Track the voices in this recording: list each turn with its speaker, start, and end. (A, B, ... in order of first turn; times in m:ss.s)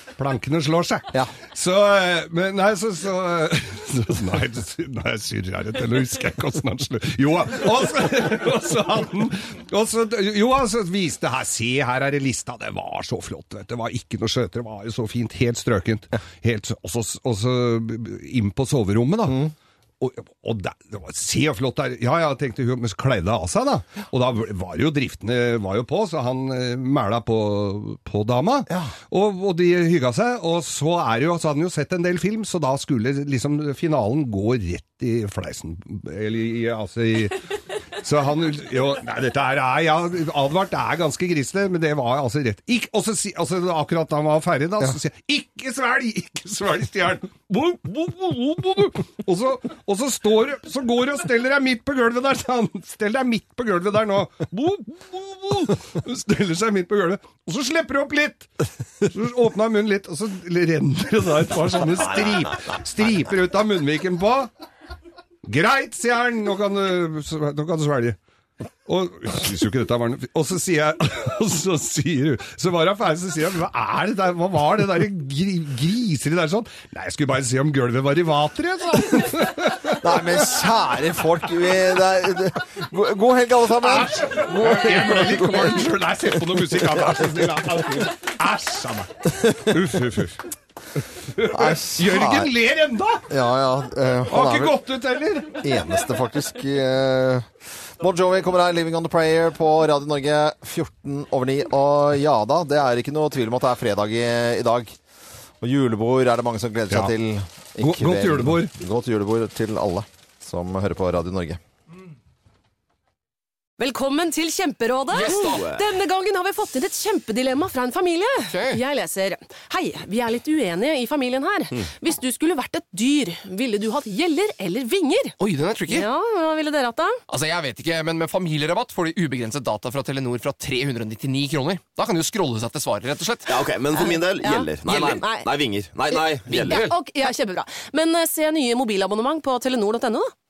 0:00.2-0:58.5 A
0:59.0-1:04.5 A
1:05.4-1:08.2 A
1:08.8-1:20.4 A
1:19.9-1:25.9 B
1:23.8-1:30.4 A
1:26.6-1:27.1 B
1:31.2-1:33.3 A
1:31.5-1:32.5 B
1:33.3-1:34.8 B
1:34.3-1:35.7 A
1:35.6-1:37.5 B
1:38.0-1:44.9 B
1:45.6-1:51.6 B
1:47.8-1:48.7 A
1:53.8-2:05.4 C
1:55.1-1:55.7 D
1:55.4-1:55.8 E
1:58.5-1:58.8 D
2:05.4-2:06.1 D
2:05.9-2:07.2 C
2:07.3-2:13.7 D
2:13.4-2:16.8 E
2:13.9-2:15.5 C
2:16.1-2:20.3 C
2:16.5-2:17.0 D